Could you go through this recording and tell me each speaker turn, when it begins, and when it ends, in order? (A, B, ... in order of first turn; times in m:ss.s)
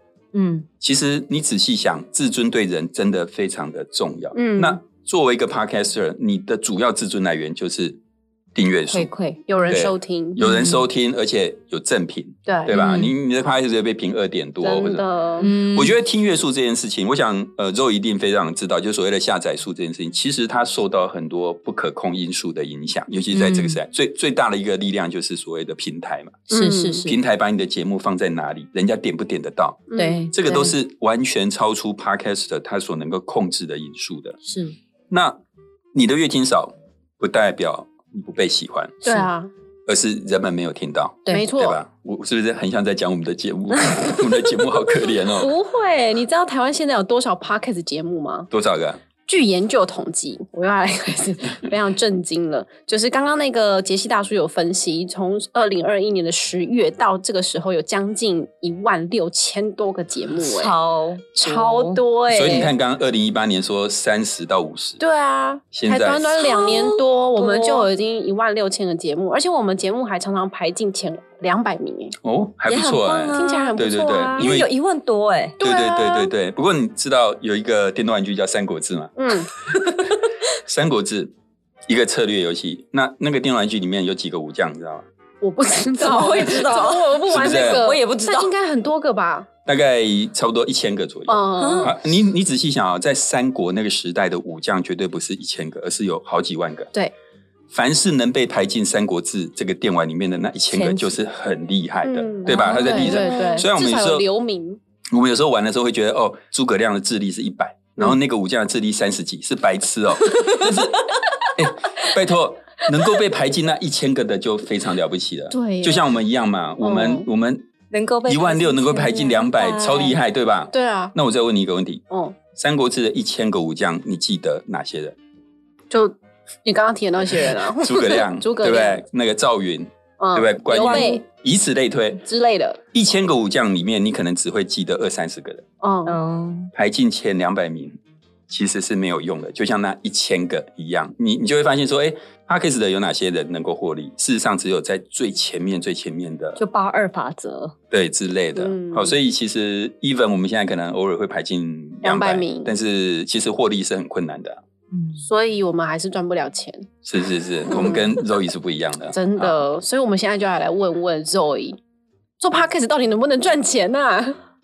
0:00.3-0:00.7 A
0:00.8-0:08.0 B
0:04.3-0:04.8 C
0:08.5-0:09.1 B
0:08.9-0:09.7 A
0:09.5-0:10.4 C
0:09.7-0:26.5 B
0:10.4-0:10.8 A
0:12.4-0:12.7 C
0:12.7-0:13.1 A
0:14.6-0:15.5 C
0:15.4-0:15.9 A
0:23.3-0:23.8 A
0:26.5-0:27.0 C
0:26.5-0:27.2 A
0:27.0-0:34.4 B
0:29.9-0:30.7 C
0:30.0-0:30.3 A
0:34.4-0:34.7 A
0:35.1-0:35.4 B
0:35.9-0:39.2 B
0:39.0-0:39.5 C
0:39.9-0:45.5 B
0:41.3-0:41.8 C
0:45.2-0:48.5 C
0:48.5-0:49.0 B
0:49.3-1:00.7 C
1:00.4-1:02.0 A
1:01.3-1:02.7 C
1:02.3-1:05.0 B
1:05.0-1:12.2 C
1:05.7-1:06.4 B
1:06.4-1:07.9 A
1:12.2-1:14.7 B
1:12.7-1:15.6 A
1:13.3-1:14.5 C
1:15.6-1:16.3 C
1:15.6-1:19.9 B
1:19.2-1:19.5 C
1:20.6-1:21.3 B
1:21.9-1:25.0 B
1:25.4-1:29.5 C
1:26.0-1:28.5 A
1:27.3-1:27.9 B
1:29.6-1:36.9 B
1:31.3-1:31.9 C
1:31.6-1:31.9 A
1:37.7-1:44.2 B
1:40.7-1:41.1 A
1:42.0-1:44.8 C
1:42.5-1:43.7 A
1:45.1-1:57.7 B
1:55.5-1:56.0 C
1:56.8-1:57.3 C
1:57.9-2:00.2 A
1:58.2-2:02.0 B
2:00.7-2:01.1 C
2:02.1-2:02.4 C
2:02.5-2:05.1 B
2:05.9-2:09.0 C
2:07.8-2:12.2 B
2:10.2-2:11.2 C
2:10.7-2:11.2 A
2:12.2-2:12.8 C
2:12.9-2:15.6 B
2:15.8-2:16.2 C
2:16.0-2:16.7 A
2:16.7-2:26.6 B
2:26.6-2:27.7 A
2:27.9-2:34.6 B
2:28.6-2:29.1 C
2:32.0-2:32.7 C
2:34.9-2:35.2 A
2:35.2-2:36.9 C
2:37.0-2:39.6 B
2:37.7-2:38.1 C
2:39.1-2:41.8 C
2:42.4-2:44.4 C